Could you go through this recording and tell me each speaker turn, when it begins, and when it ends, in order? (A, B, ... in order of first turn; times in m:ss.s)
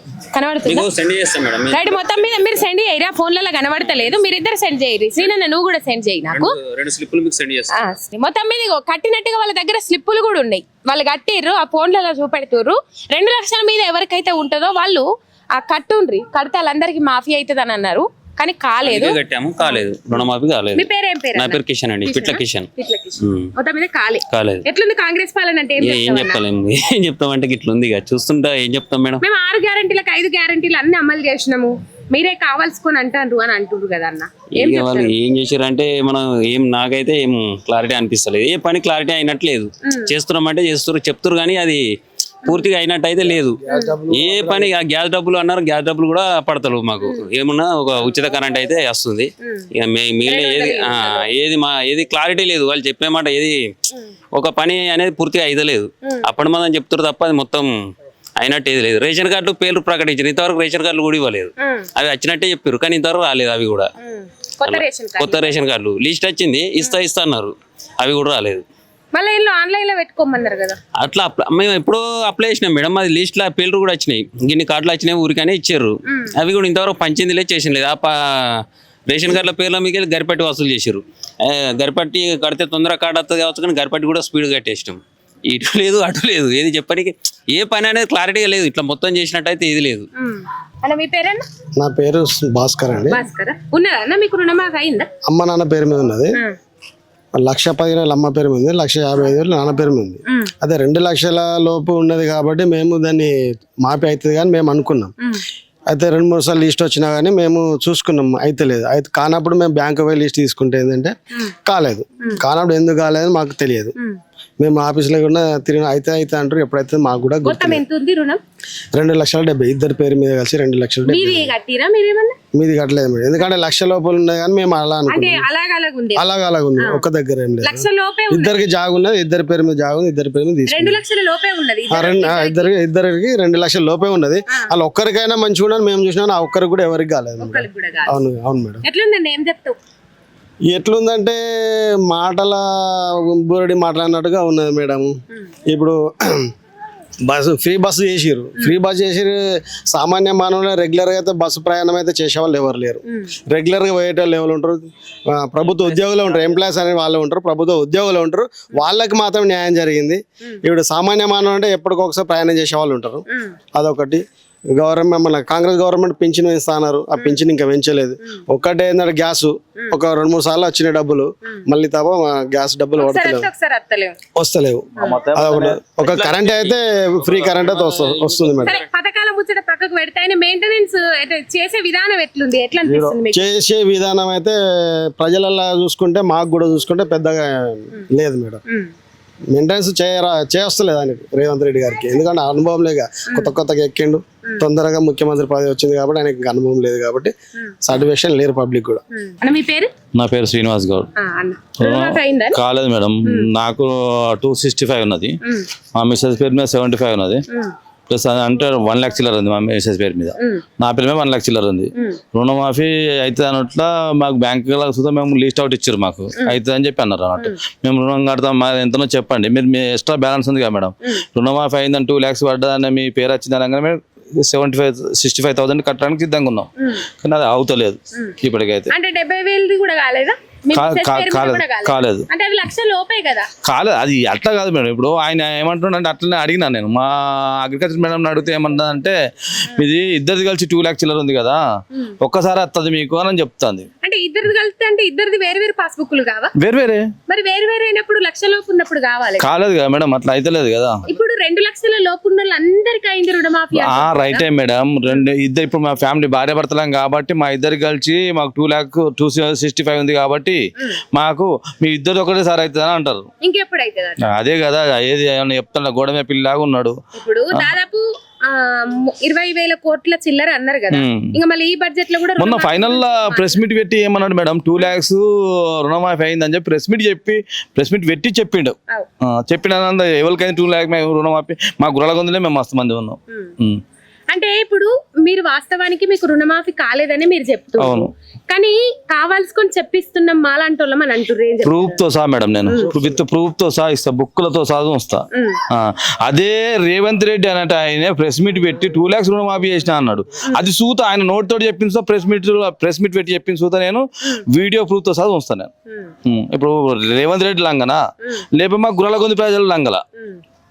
0:00.3-0:00.9 A
0:00.6-0:02.3 B
0:01.7-0:06.6 A
0:06.3-0:07.8 B
0:07.7-0:19.2 A
0:18.8-0:22.7 B
0:20.7-0:26.4 A
0:23.2-0:23.5 B
0:24.3-0:24.6 B
0:25.8-0:29.2 B
0:29.2-0:35.1 A
0:34.6-0:41.8 B
0:39.8-0:40.1 A
0:42.4-0:53.7 B
0:43.7-0:44.0 A
0:49.4-0:49.7 A
0:50.2-0:51.2 A
0:54.3-0:57.7 B
0:58.4-1:03.9 B
1:01.6-1:01.9 A
1:04.0-1:05.5 A
1:04.6-1:08.6 B
1:09.1-1:10.8 A
1:11.0-1:30.1 B
1:16.1-1:16.3 A
1:30.2-1:31.4 A
1:31.8-1:33.2 C
1:33.1-1:35.1 A
1:35.2-1:36.3 C
1:37.3-1:45.1 C
1:45.9-1:51.1 C
1:51.6-1:53.9 C
1:54.6-1:57.8 C
1:57.4-1:58.4 A
1:58.9-2:01.5 C
2:01.0-2:02.4 A
2:02.5-2:05.4 C
2:05.1-2:06.3 A
2:06.2-2:11.0 C
2:06.8-2:07.0 A
2:07.6-2:08.6 A
2:10.7-2:12.7 A
2:11.9-2:18.8 C
2:17.4-2:18.1 A
2:18.8-2:19.8 A
2:20.6-2:25.1 C
2:25.7-2:26.5 C
2:27.2-2:29.4 C
2:29.9-2:43.2 C
2:43.7-2:44.2 C
2:44.7-2:53.5 C
2:47.2-2:47.4 A
2:53.0-2:54.2 A
2:54.4-2:58.8 C
2:55.0-2:56.7 D
2:57.4-2:58.7 B
2:57.6-2:58.4 D
2:58.6-3:03.4 A
3:03.3-3:04.6 C
3:05.2-3:08.6 C
3:08.7-3:08.9 A
3:09.5-3:17.3 C
3:17.8-3:19.0 C
3:19.2-3:19.9 A
3:20.1-3:21.1 D
3:21.2-3:22.6 A
3:21.8-3:25.4 D
3:25.9-3:27.4 D
3:28.1-3:46.7 D
3:30.4-3:30.6 A
3:31.9-3:32.2 A
3:46.8-3:47.0 A
3:47.2-3:48.9 D
3:48.9-3:53.5 A
3:50.7-3:52.3 D
3:53.6-3:59.2 D
3:59.7-4:01.6 D
4:02.2-4:03.9 D
4:04.0-4:06.5 A
4:06.6-4:07.1 D
4:07.3-4:09.5 A
4:09.4-4:11.0 D
4:11.1-4:14.4 A
4:13.7-4:23.3 D
4:23.4-4:24.2 A
4:24.2-4:27.0 D
4:27.1-4:33.6 A
4:30.9-4:31.3 D
4:32.4-4:43.8 D
4:44.3-4:52.0 A
4:47.8-4:48.1 D
4:51.6-5:05.7 D
4:52.6-4:52.9 A
4:55.3-4:55.6 A
5:05.9-5:06.1 A
5:06.2-5:10.0 D